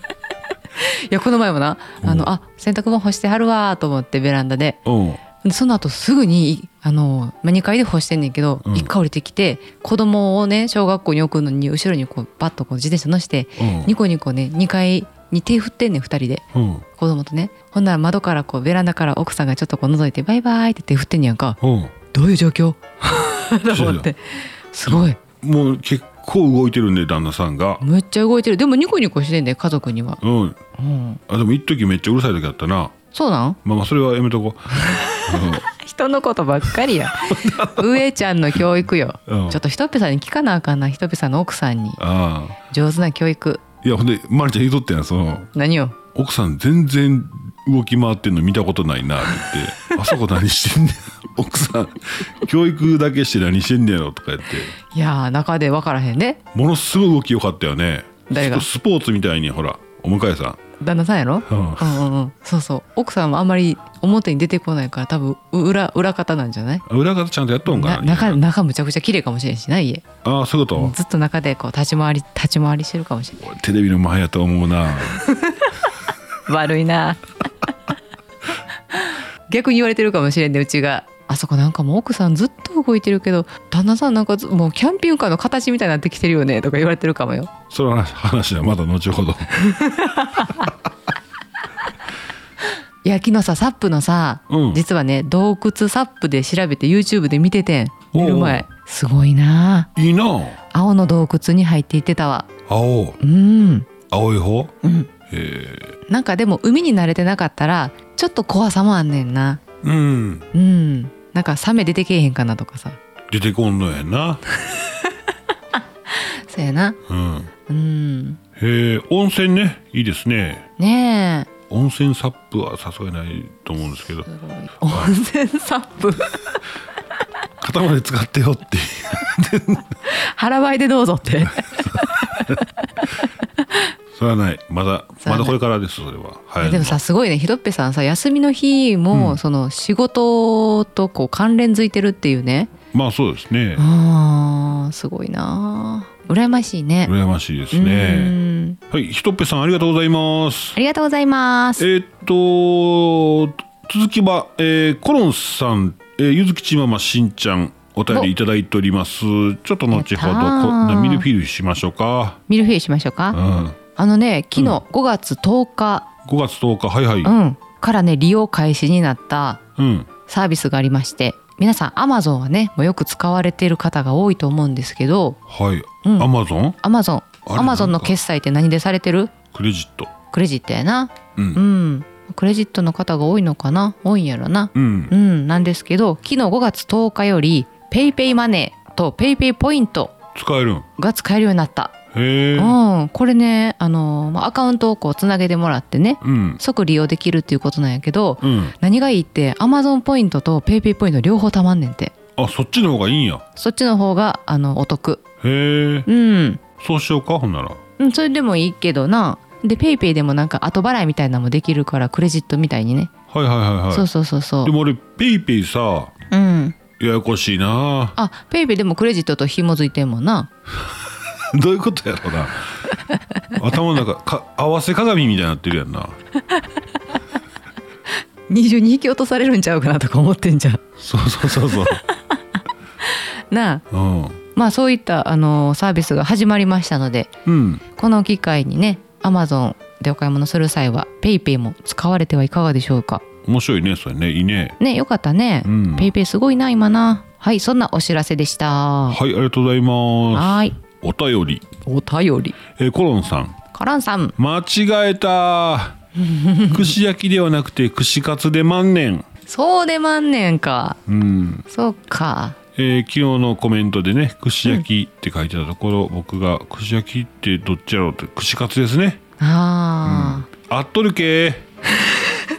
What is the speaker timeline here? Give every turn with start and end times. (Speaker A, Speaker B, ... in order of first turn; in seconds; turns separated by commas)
Speaker A: 0.8-4.8, Speaker B: 2.0-2.3, Speaker B: 4.8-5.2, Speaker A: 5.4-16.4, Speaker B: 8.6-8.9, Speaker B: 13.6-13.9, Speaker B: 16.5-16.9, Speaker A: 17.0-21.6, Speaker B: 21.6-21.9, Speaker A: 22.1-25.2, Speaker B: 23.7-24.1, Speaker B: 24.9-27.8, Speaker A: 27.8-30.2, Speaker B: 30.2-30.6, Speaker A: 30.8-31.2, Speaker B: 31.3-32.9, Speaker A: 33.1-33.6, Speaker B: 33.6-35.6, Speaker A: 34.8-42.0, Speaker B: 37.1-38.0, Speaker B: 39.3-39.6, Speaker B: 42.0-42.6, Speaker A: 42.7-43.6, Speaker B: 43.8-45.5, Speaker A: 45.5-46.0, Speaker B: 46.1-54.8, Speaker A: 54.9-56.4, Speaker B: 56.5-60.6, Speaker A: 58.3-58.6, Speaker A: 60.8-66.8, Speaker B: 61.5-62.0, Speaker B: 66.9-68.4, Speaker A: 67.7-70.1, Speaker B: 70.2-71.0, Speaker A: 70.8-73.4, Speaker B: 73.4-75.2, Speaker A: 75.2-75.7, Speaker A: 76.5-77.2, Speaker A: 78.9-87.5, Speaker B: 87.7-89.8, Speaker A: 89.6-90.7, Speaker A: 93.0-99.9, Speaker B: 94.5-94.8, Speaker B: 98.1-98.6, Speaker B: 100.0-100.6, Speaker A: 100.7-102.5, Speaker B: 102.7-103.2, Speaker A: 103.2-103.9, Speaker B: 104.1-104.7, Speaker A: 104.8-105.1, Speaker B: 105.3-106.0, Speaker A: 106.1-109.6, Speaker B: 109.8-110.5, Speaker A: 110.5-113.0, Speaker B: 113.3-114.4, Speaker A: 116.1-117.0, Speaker B: 117.1-117.5, Speaker A: 117.7-118.4, Speaker B: 118.6-120.7, Speaker A: 120.8-121.5, Speaker B: 121.7-124.3, Speaker A: 124.3-126.6, Speaker B: 127.6-129.9, Speaker A: 130.1-133.8, Speaker B: 131.6-132.6, Speaker B: 134.1-137.0, Speaker A: 135.2-135.6, Speaker A: 136.6-142.7, Speaker B: 139.1-139.4, Speaker B: 142.9-143.8, Speaker A: 143.8-147.1, Speaker B: 147.0-148.4, Speaker A: 147.7-148.8, Speaker B: 148.9-150.8, Speaker A: 150.8-151.9, Speaker B: 151.8-162.4, Speaker A: 159.9-161.3, Speaker A: 162.5-163.4, Speaker B: 163.3-163.8, Speaker A: 163.9-166.1, Speaker B: 166.2-167.3, Speaker A: 167.2-169.6, Speaker B: 169.8-170.1, Speaker A: 170.3-175.4, Speaker B: 175.5-176.8, Speaker A: 176.0-176.3, Speaker A: 176.8-179.3, Speaker B: 177.5-178.1, Speaker B: 179.5-180.1, Speaker A: 180.3-190.2, Speaker B: 181.4-181.6, Speaker B: 184.8-185.1, Speaker B: 190.3-190.9, Speaker A: 191.0-192.0, Speaker B: 192.1-192.8, Speaker A: 192.6-202.1, Speaker B: 196.2-196.6, Speaker B: 198.4-198.8, Speaker B: 202.4-203.4, Speaker A: 203.6-205.2, Speaker B: 205.4-206.1, Speaker A: 206.1-206.6, Speaker B: 206.8-207.8, Speaker A: 208.0-213.1, Speaker B: 213.3-214.1, Speaker A: 213.9-214.7, Speaker B: 214.6-216.1, Speaker A: 216.3-216.8, Speaker B: 217.0-218.2, Speaker A: 218.2-220.5, Speaker B: 221.3-222.7, Speaker B: 223.5-226.2, Speaker A: 228.5-230.8, Speaker B: 231.0-232.0, Speaker A: 231.8-232.4, Speaker A: 233.1-233.8, Speaker B: 233.9-234.4, Speaker A: 234.5-237.3, Speaker B: 237.5-237.8, Speaker A: 238.0-243.2, Speaker B: 243.4-244.8, Speaker A: 244.8-249.2, Speaker B: 245.6-246.1, Speaker B: 249.1-251.6, Speaker A: 250.3-250.8, Speaker A: 251.8-252.6, Speaker B: 252.8-253.6, Speaker A: 253.7-254.3, Speaker B: 254.4-256.0, Speaker A: 256.2-256.9, Speaker B: 256.7-259.2, Speaker A: 259.5-261.0, Speaker B: 261.1-261.6, Speaker A: 261.7-262.6, Speaker B: 262.8-269.2, Speaker A: 269.4-270.5, Speaker B: 270.0-271.7